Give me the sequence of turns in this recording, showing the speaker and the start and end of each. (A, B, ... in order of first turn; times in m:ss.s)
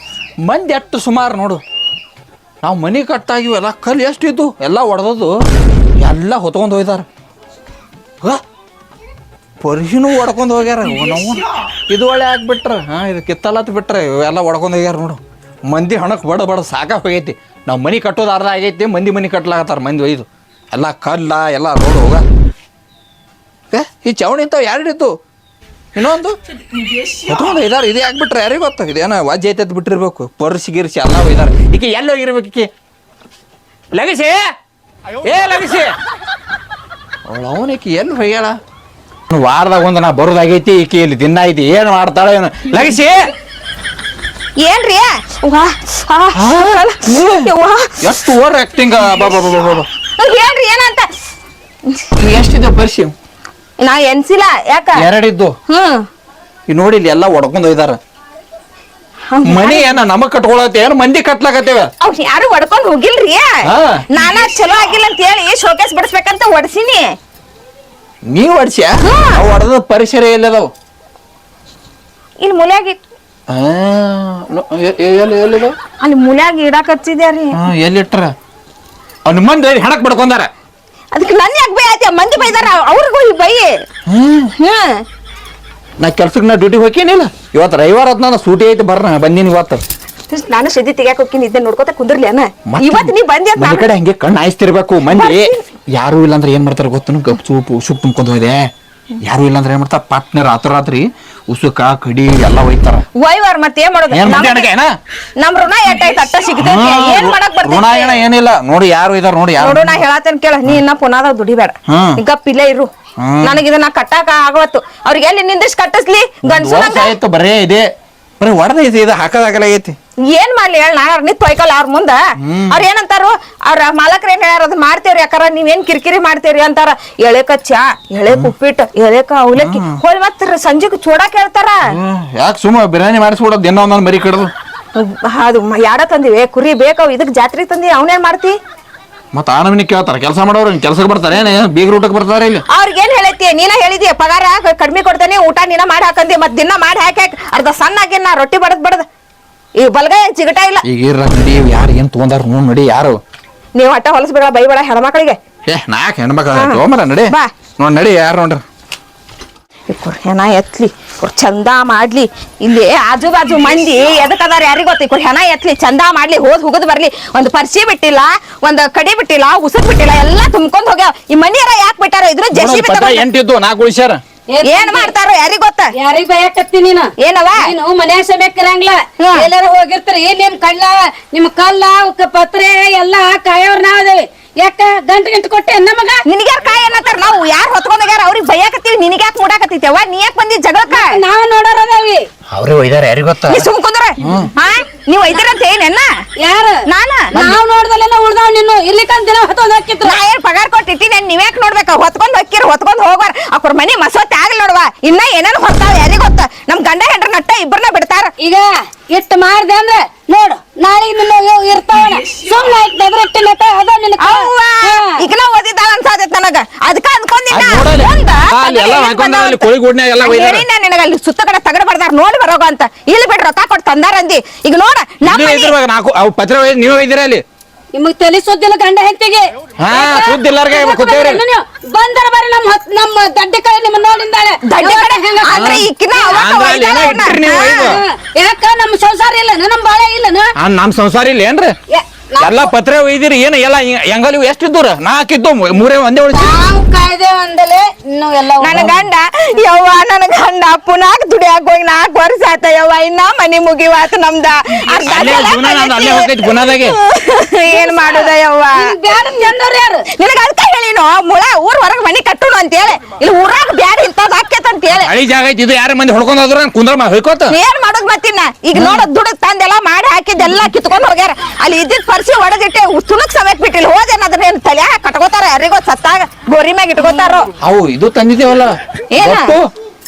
0:00.4-0:01.6 A
0:02.6-0:05.5 A
0:06.0-0:07.1 A
0:09.6-0:22.2 A
0:23.7-0:25.2 A
0:26.0-0:26.4 A
0:27.2-0:32.7 A
0:33.9-0:34.5 A
0:35.2-0:35.9 A
0:37.3-0:38.6 A
0:39.3-0:43.2 A
0:44.6-0:48.2 B
0:46.4-0:47.5 A
0:48.0-0:49.9 A
0:50.2-0:51.1 B
0:52.2-0:53.1 A
0:53.8-0:55.0 B
0:55.0-0:55.6 A
0:55.7-0:56.1 B
0:56.7-0:58.0 A
0:59.3-0:59.8 B
0:59.4-1:01.9 A
1:02.0-1:07.1 B
1:03.6-1:04.0 A
1:08.3-1:10.7 A
1:09.0-1:09.4 B
1:12.4-1:13.0 B
1:13.5-1:15.8 A
1:16.0-1:17.6 B
1:17.5-1:18.3 A
1:19.3-1:20.5 A
1:21.1-1:23.7 B
1:24.1-1:24.5 A
1:24.6-1:25.0 B
1:26.0-1:29.8 A
1:30.3-1:33.9 B
1:32.7-1:38.7 A
1:35.1-1:35.6 B
1:39.2-1:43.0 A
1:43.2-1:44.7 B
1:44.1-1:45.0 A
1:45.4-1:48.2 B
1:46.6-1:50.0 A
1:49.6-1:52.9 B
1:51.9-1:52.2 A
1:53.2-1:53.6 A
1:53.4-1:57.2 B
1:56.4-1:57.9 A
1:58.4-2:00.0 A
2:00.3-2:11.9 B
2:02.4-2:02.8 A
2:08.3-2:08.5 A
2:09.6-2:10.0 A
2:11.9-2:14.5 A
2:15.0-2:18.6 B
2:19.3-2:22.6 A
2:22.7-2:29.1 B
2:29.8-2:30.8 B
2:30.8-2:33.2 A
2:33.8-2:35.4 B
2:35.7-2:38.6 A
2:36.6-2:37.5 B
2:39.9-2:53.2 B
2:52.5-2:54.2 A
2:54.5-2:55.1 C
2:54.7-2:55.9 B
2:56.0-3:06.2 C
2:57.2-2:57.7 B
2:59.2-2:59.5 B
3:06.3-3:11.2 B
3:10.9-3:12.2 C
3:12.5-3:13.7 A
3:13.5-3:16.1 B
3:14.2-3:14.5 A
3:16.4-3:16.8 C
3:16.9-3:17.4 B
3:17.3-3:20.2 C
3:20.0-3:28.3 B
3:28.4-3:35.2 C
3:34.2-3:39.7 B
3:37.5-3:40.6 A
3:40.2-3:45.8 B
3:45.2-3:47.4 A
3:47.9-3:56.4 C
3:49.8-3:51.4 A
3:54.6-3:57.9 B
3:55.5-3:58.0 A
3:57.5-4:00.5 C
4:00.6-4:01.8 A
4:01.9-4:02.7 C
4:02.4-4:06.6 A
4:06.3-4:08.9 C
4:08.6-4:18.9 B
4:08.7-4:09.0 A
4:15.0-4:17.0 A
4:17.7-4:20.1 C
4:20.1-4:25.1 B
4:25.0-4:27.6 A
4:27.5-4:37.5 B
4:28.8-4:29.1 A
4:37.0-4:37.4 C
4:37.6-4:39.7 A
4:39.1-4:39.6 B